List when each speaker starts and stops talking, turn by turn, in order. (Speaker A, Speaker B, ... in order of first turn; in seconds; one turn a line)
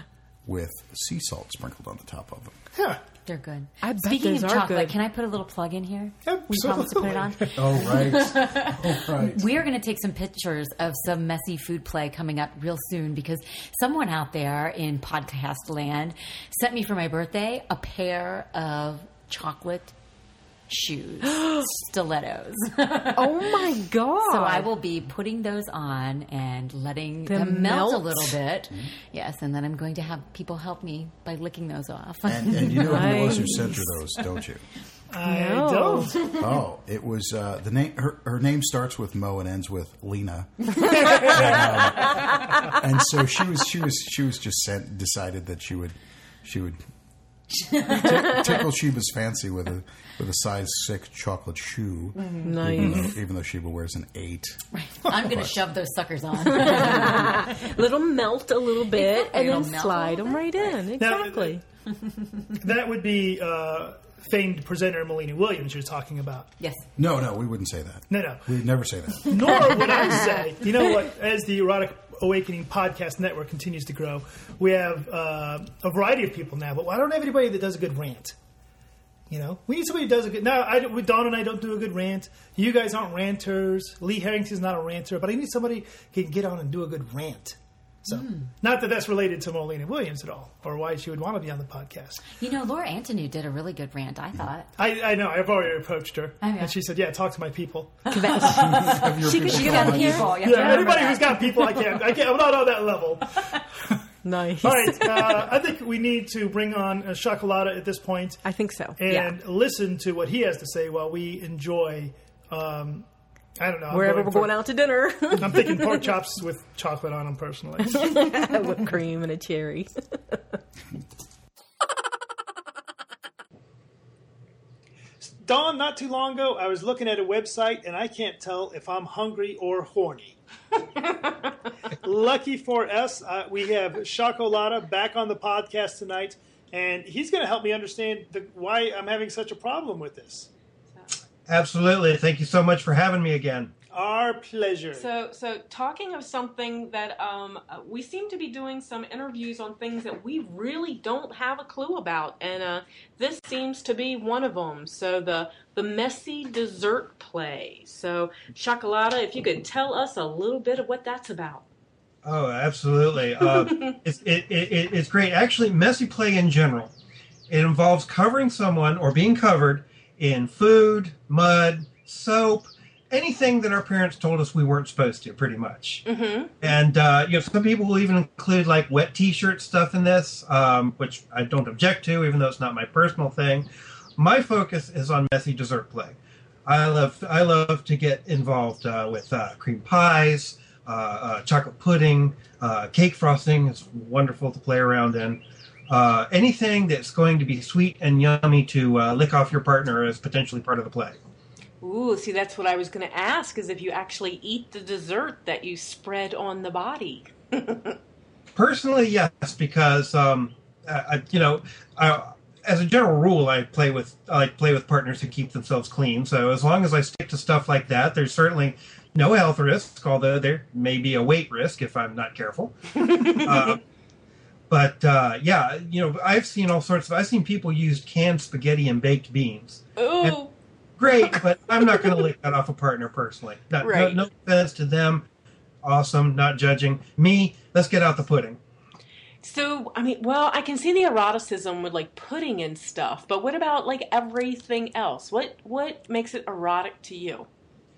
Speaker A: 0.4-2.6
Speaker B: 2.7-3.0
Speaker C: 3.2-19.9
Speaker D: 3.8-4.9
Speaker B: 6.2-7.6
Speaker A: 7.5-9.6
Speaker C: 20.7-23.6
Speaker D: 23.1-24.7
Speaker C: 24.2-34.4
Speaker D: 27.2-28.4
Speaker A: 32.2-34.6
Speaker D: 32.8-33.6
Speaker B: 35.1-36.4
Speaker D: 35.2-36.2
Speaker A: 36.3-46.8
Speaker C: 47.6-48.4
Speaker A: 47.9-55.6
Speaker D: 52.4-53.1
Speaker C: 54.7-57.6
Speaker D: 56.5-61.6
Speaker C: 58.9-60.8
Speaker B: 61.0-61.6
Speaker B: 62.6-66.5
Speaker C: 66.6-66.8
Speaker A: 67.0-69.9
Speaker B: 68.1-68.5
Speaker B: 69.2-78.3
Speaker B: 79.3-92.3
Speaker C: 88.1-88.5
Speaker C: 92.3-94.7
Speaker B: 94.8-99.0
Speaker C: 96.4-96.7
Speaker C: 98.1-102.0
Speaker D: 98.1-98.5
Speaker A: 98.5-100.9
Speaker B: 99.7-103.4
Speaker D: 104.2-105.4
Speaker B: 104.6-108.4
Speaker D: 108.4-109.4
Speaker B: 109.0-113.0
Speaker B: 113.6-114.6
Speaker D: 113.9-116.1
Speaker B: 115.3-118.5
Speaker D: 117.9-120.4
Speaker B: 125.2-130.4
Speaker B: 132.0-140.5
Speaker E: 141.5-143.7
Speaker B: 143.9-145.1
Speaker D: 144.9-161.7
Speaker E: 162.2-166.9
Speaker D: 163.4-164.0
Speaker E: 167.5-176.0
Speaker D: 176.0-176.6
Speaker E: 176.6-201.2
Speaker D: 201.8-208.0
Speaker E: 208.5-223.8
Speaker D: 223.0-223.7
Speaker E: 224.7-230.4
Speaker D: 230.0-230.5
Speaker E: 231.0-235.3
Speaker D: 231.2-232.3
Speaker D: 233.8-234.2
Speaker E: 235.8-238.6
Speaker D: 239.4-247.5